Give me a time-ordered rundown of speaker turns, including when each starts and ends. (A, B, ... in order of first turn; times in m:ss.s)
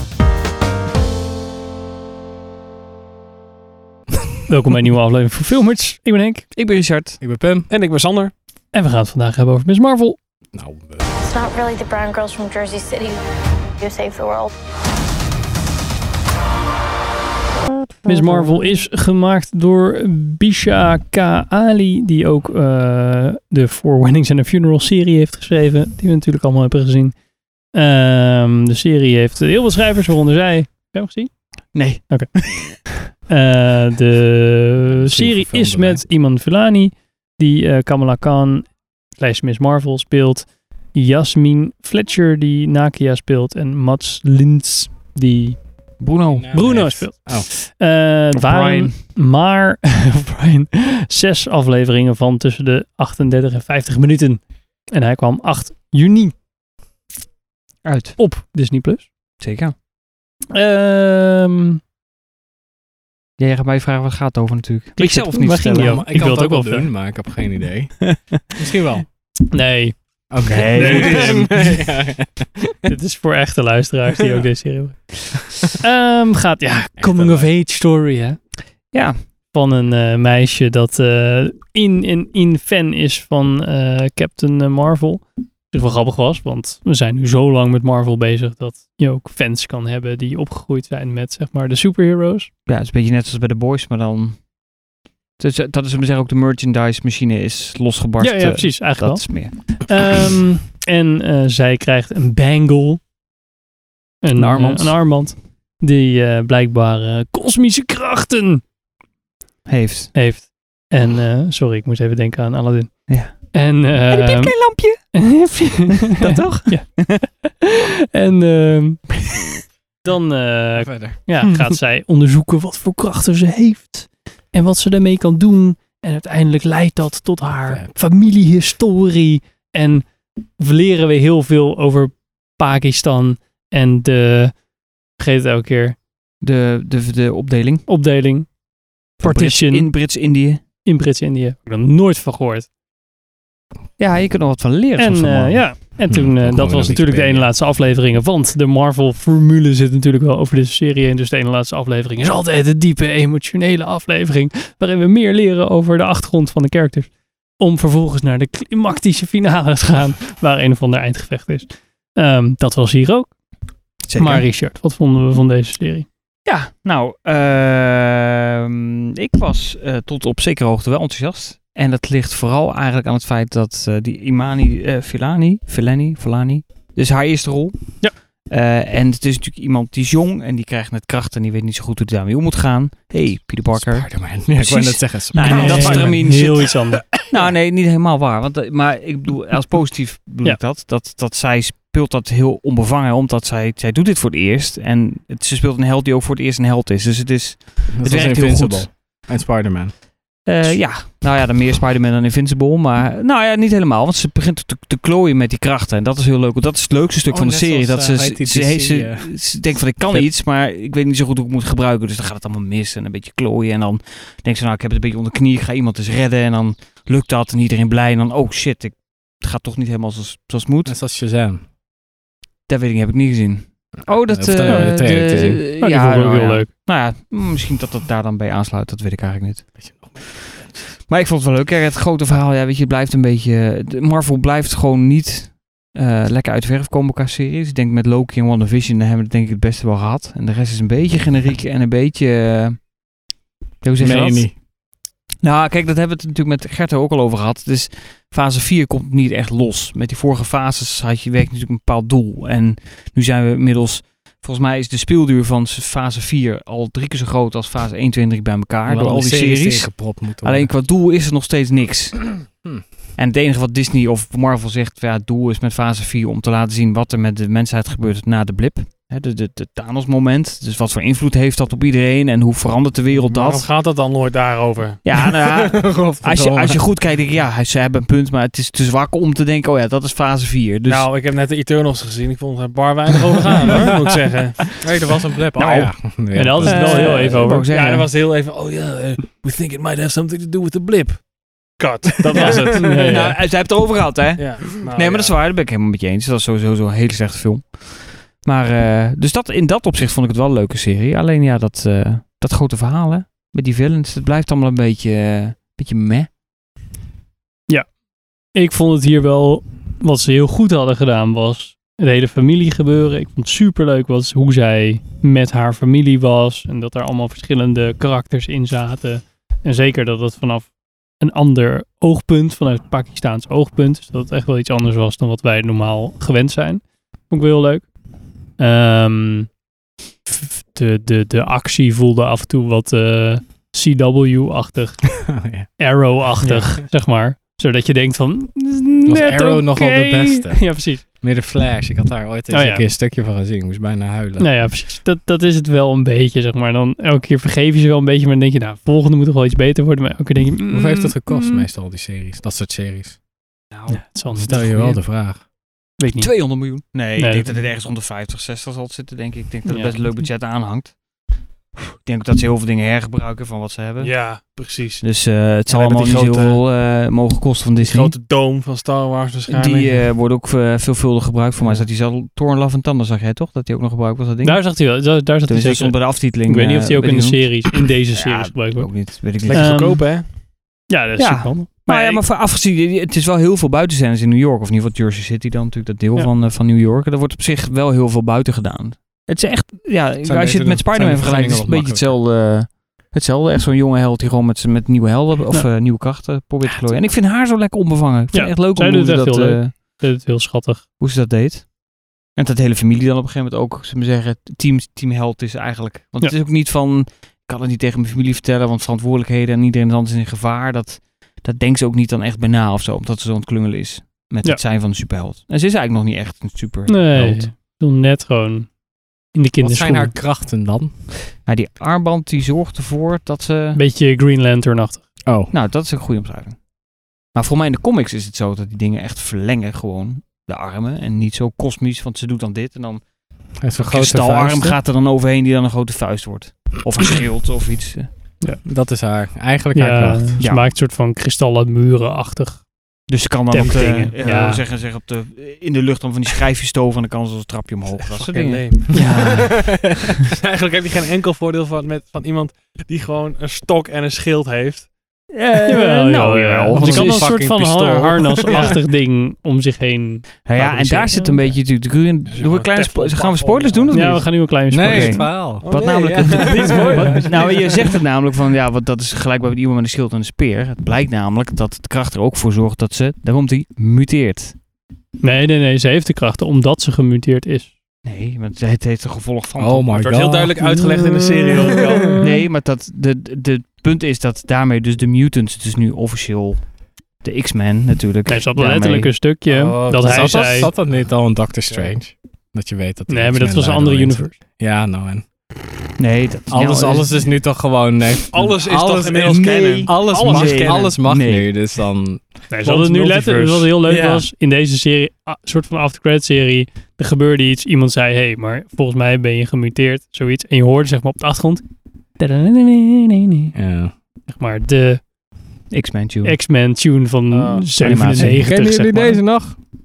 0:04.5-0:06.5 A
0:06.5-0:07.2 B
0:07.2-0:07.7 C
0:07.7-0:08.3 D
0:08.7-0:10.2 A
0:10.5-0:11.1 C
0:11.2-0:13.2 E
0:13.8-0:14.5 E
0:18.0-0:27.2 A
0:27.7-0:31.3 A
0:31.7-0:32.8 B
0:32.1-0:45.9 A
0:34.9-0:36.0 C
0:46.0-0:47.0 B
0:46.3-0:47.5 C
0:46.5-0:56.4 A
0:48.3-0:49.0 B
0:57.8-0:58.2 B
0:58.2-0:59.1 A
0:59.4-0:59.7 B
1:00.5-1:01.8 A
1:03.4-1:06.0 B
1:05.0-1:06.9 A
1:05.6-1:09.1 C
1:09.5-1:10.0 A
1:10.3-1:12.5 C
1:10.4-1:11.4 B
1:10.8-1:11.5 A
1:10.9-1:11.5 D
1:12.8-1:18.4 A
1:17.0-1:17.5 C
1:18.9-1:19.2 B
1:19.5-1:32.5 A
1:32.7-1:34.4 B
1:35.4-1:40.1 B
1:38.2-1:43.0 A
1:44.2-1:48.6 A
1:44.4-1:45.0 B
1:49.7-1:50.2 B
1:50.1-1:59.3 A
1:53.1-1:55.2 B
1:56.1-1:57.2 B
2:00.0-2:10.1 A
2:00.8-2:01.4 C
2:07.7-2:07.9 C
2:10.6-2:14.6 A
2:15.2-2:16.0 A
2:16.4-2:17.8 B
2:17.9-2:18.5 A
2:19.2-2:20.1 A
2:19.2-2:20.6 B
2:20.8-2:22.7 A
2:24.0-2:25.8 B
2:25.0-2:43.3 A
2:26.1-2:27.6 C
2:44.0-2:44.5 B
2:44.1-2:46.1 A
2:46.5-3:06.7 B
3:03.7-3:06.4 C
3:05.4-3:07.0 A
3:07.3-3:18.9 B
3:17.9-3:19.9 C
3:20.5-3:41.0 B
3:27.3-3:30.3 C
3:40.8-3:41.6 C
3:42.7-3:50.3 B
3:44.1-3:45.6 C
3:44.7-3:46.7 A
3:49.8-3:50.5 C
3:50.9-4:02.9 B
4:03.8-4:04.6 B
4:04.0-4:04.6 C
4:05.4-4:22.4 B
4:18.9-4:20.7 C
4:23.2-4:33.7 B
4:33.1-4:35.0 D
4:35.0-4:41.1 B
4:35.4-4:36.8 C
4:40.8-4:44.7 D
4:44.8-4:47.4 C
4:45.6-4:46.0 B
4:46.4-4:47.7 A
4:46.6-4:48.1 B
4:47.4-4:51.2 D
4:51.8-4:53.2 D
4:52.3-5:06.3 B
4:52.5-4:53.4 A
4:54.4-4:55.4 D
5:08.5-5:27.9 A
5:28.6-5:29.5 A
5:30.3-5:35.2 A
5:35.3-5:35.7 C
5:35.8-5:41.0 A
5:36.4-5:36.7 D
5:39.1-5:44.7 C
5:42.5-5:42.9 A
5:44.4-5:51.7 A
5:50.7-5:53.2 C
5:53.7-5:54.4 B
5:53.9-5:55.0 A
5:54.4-5:55.4 C
5:56.0-5:56.4 A
5:56.2-6:01.0 B
5:57.2-5:57.6 A
5:59.7-6:00.2 A
6:01.9-6:04.2 B
6:04.0-6:05.0 D
6:05.0-6:08.2 B
6:05.7-6:06.6 D
6:07.8-6:10.1 D
6:09.5-6:14.9 B
6:11.6-6:11.9 D
6:14.4-6:20.1 A
6:15.4-6:19.9 B
6:19.4-6:20.3 D
6:20.9-6:22.2 A
6:21.2-6:40.0 B
6:30.2-6:32.2 C
6:38.3-6:40.8 A
6:41.0-6:41.7 B
6:42.3-6:57.5 B
6:56.9-6:58.7 A
6:59.3-7:00.1 A
6:59.6-7:00.9 C
7:01.4-7:03.8 B
7:03.8-7:05.0 A
7:05.3-7:05.5 C
7:05.5-7:06.6 B
7:07.3-7:13.0 B
7:13.6-7:18.1 B
7:13.6-7:14.8 C
7:18.6-7:20.4 C
7:19.7-7:22.7 A
7:20.4-7:20.6 B
7:23.1-7:29.1 B
7:23.5-7:24.6 A
7:28.1-7:34.9 D
7:28.9-7:29.6 A
7:35.3-7:37.3 B
7:35.6-7:41.4 A
7:36.7-7:37.3 C
7:37.2-7:38.8 D
7:40.5-7:54.6 B
7:42.3-7:44.1 D
7:43.9-7:45.3 A
7:44.7-7:47.2 C
7:45.6-7:47.8 D
7:46.5-7:47.3 A
7:55.2-7:57.7 A
7:58.0-8:00.0 B
7:59.6-8:00.6 C
8:00.0-8:02.2 D
8:00.6-8:02.4 A
8:02.2-8:09.2 B
8:08.3-8:10.7 A
8:09.4-8:10.9 D
8:10.0-8:15.3 C
8:13.1-8:14.3 A
8:16.0-8:17.1 B
8:16.5-8:22.4 C
8:18.3-8:20.9 D
8:19.2-8:21.6 B
8:22.5-8:31.6 A
8:22.6-8:24.3 D
8:32.2-8:33.5 A
8:33.6-8:33.9 C
8:34.3-8:35.0 A
8:35.7-8:36.4 B
8:36.2-8:39.3 A
8:37.3-8:37.8 D
8:37.8-8:38.4 B
8:38.0-8:39.6 C